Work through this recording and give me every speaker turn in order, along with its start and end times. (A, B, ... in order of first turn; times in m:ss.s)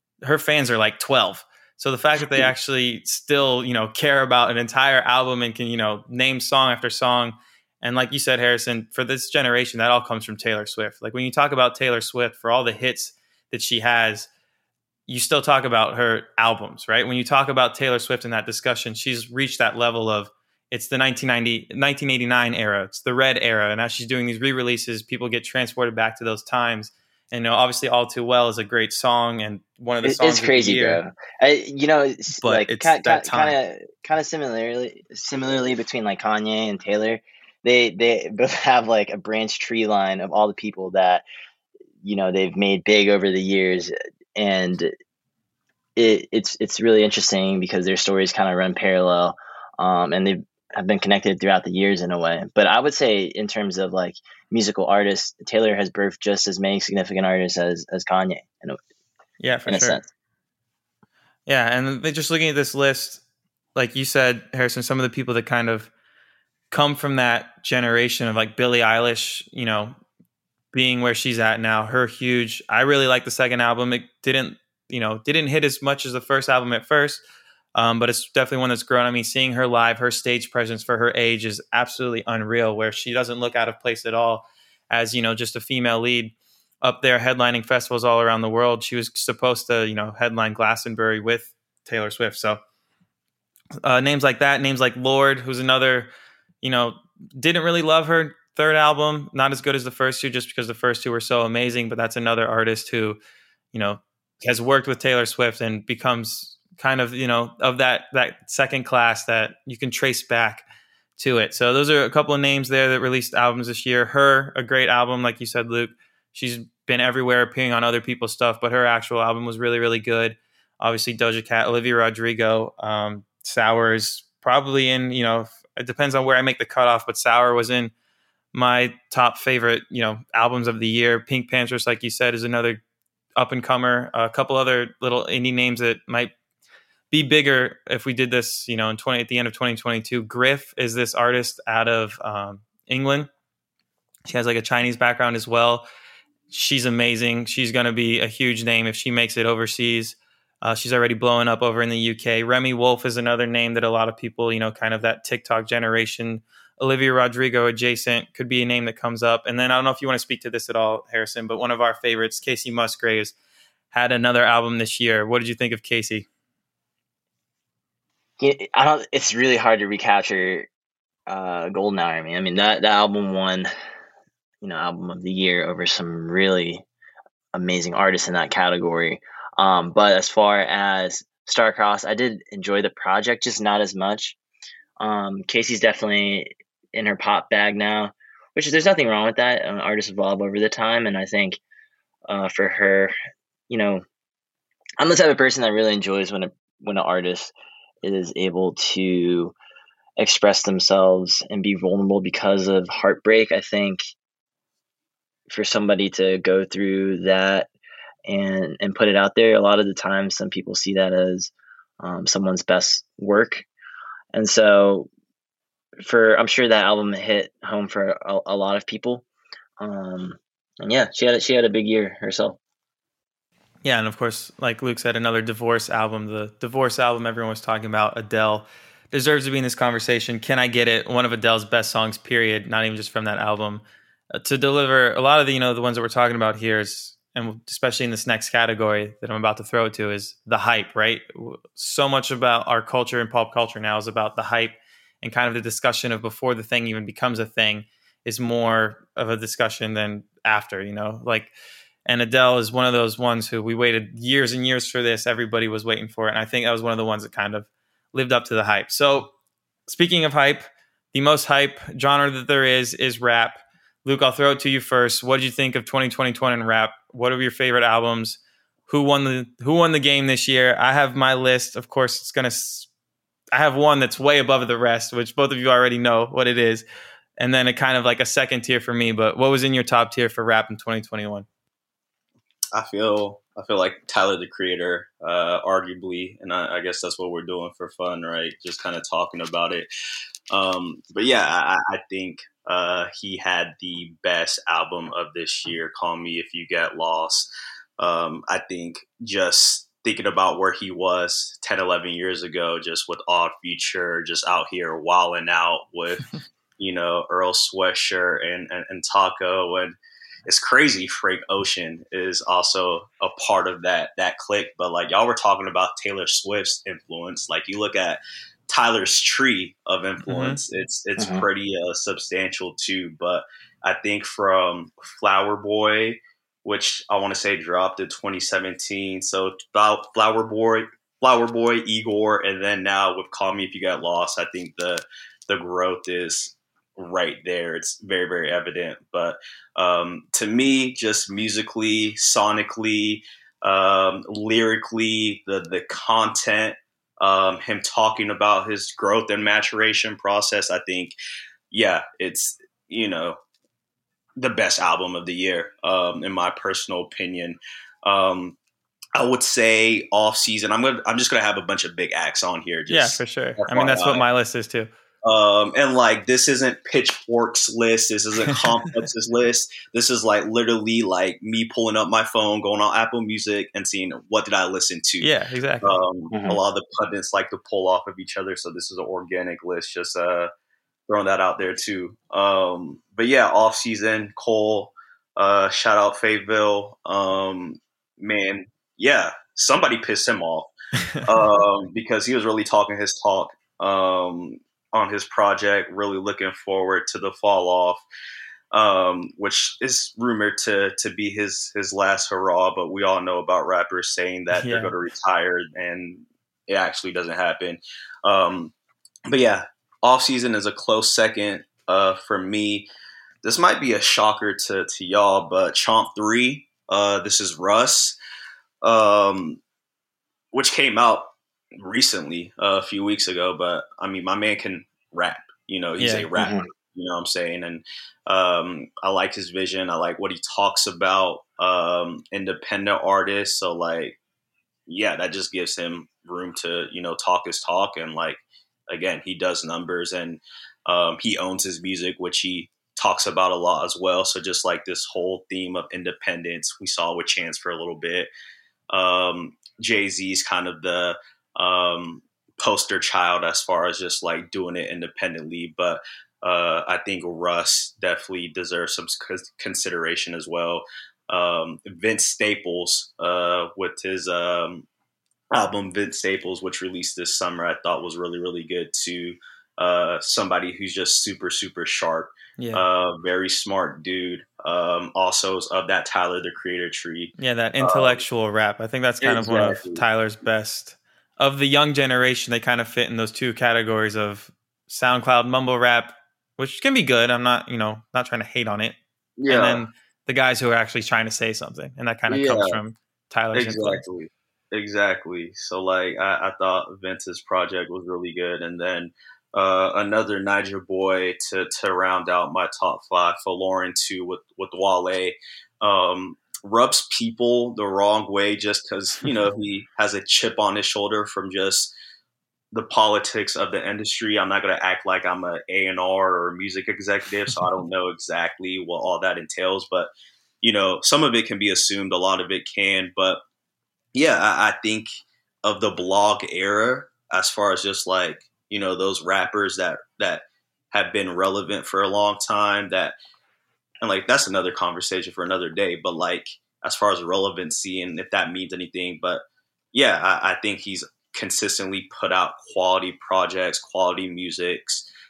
0:00.2-0:14.3 A
0:15.1-0:31.0 A
0:30.0-0:41.2 B
0:32.4-0:33.6 A
0:42.0-0:44.9 B
0:46.0-0:58.8 B
0:59.4-1:00.0 A
0:59.7-1:00.0 B
1:01.5-1:03.2 A
1:03.7-1:05.9 A
1:06.7-1:10.0 A
1:10.7-1:17.2 A
1:17.7-1:32.6 A
1:33.8-1:36.1 A
1:36.6-1:43.2 A
1:43.7-1:50.6 A
1:51.2-2:07.9 A
2:08.5-2:12.8 A
2:13.4-2:16.3 A
2:17.1-2:23.3 A
2:24.3-2:25.8 A
2:26.5-2:43.3 A
2:43.9-2:46.3 A
2:48.4-2:50.7 B
2:51.3-2:53.7 B
2:54.6-2:56.8 B
2:57.5-3:04.4 B
3:05.0-3:11.6 B
3:12.3-3:13.1 B
3:13.7-3:14.0 B
3:15.0-3:19.5 B
3:20.2-3:24.0 B
3:25.5-3:27.7 B
3:28.2-3:33.6 B
3:34.3-3:35.1 B
3:36.0-3:39.2 B
3:39.8-3:42.6 B
3:43.8-3:53.8 A
3:54.3-4:11.5 A
4:12.0-4:19.3 A
4:19.9-4:32.9 A
4:33.5-4:36.8 A
4:37.4-4:41.4 A
4:42.7-4:49.9 C
4:50.5-5:51.2 C
5:20.2-5:20.6 A
5:21.2-5:21.4 B
5:51.7-5:53.4 C
5:54.4-5:58.6 C
5:59.1-6:04.2 C
6:02.9-6:04.9 A
6:05.2-6:15.3 C
6:15.2-6:16.0 A
6:15.8-6:20.5 C
6:16.3-6:16.6 B
6:21.1-6:38.0 C
6:38.7-6:48.7 C
6:44.5-6:44.9 A
6:49.3-6:52.9 C
6:53.4-6:58.2 C
6:58.8-6:59.6 C
7:00.5-7:14.2 C
7:06.0-7:06.3 A
7:06.4-7:06.7 B
7:14.9-7:28.3 C
7:28.9-7:44.8 C
7:45.5-7:58.2 C
7:52.6-7:52.8 A
7:57.4-8:09.0 A
7:59.2-8:00.0 C
8:09.4-8:09.8 C
8:09.5-8:14.0 A
8:12.3-8:12.8 C
8:13.5-8:31.9 C
8:32.7-8:40.1 C
8:40.6-8:43.4 C
8:44.1-8:45.1 C
8:45.6-8:53.2 C
8:54.0-9:05.1 C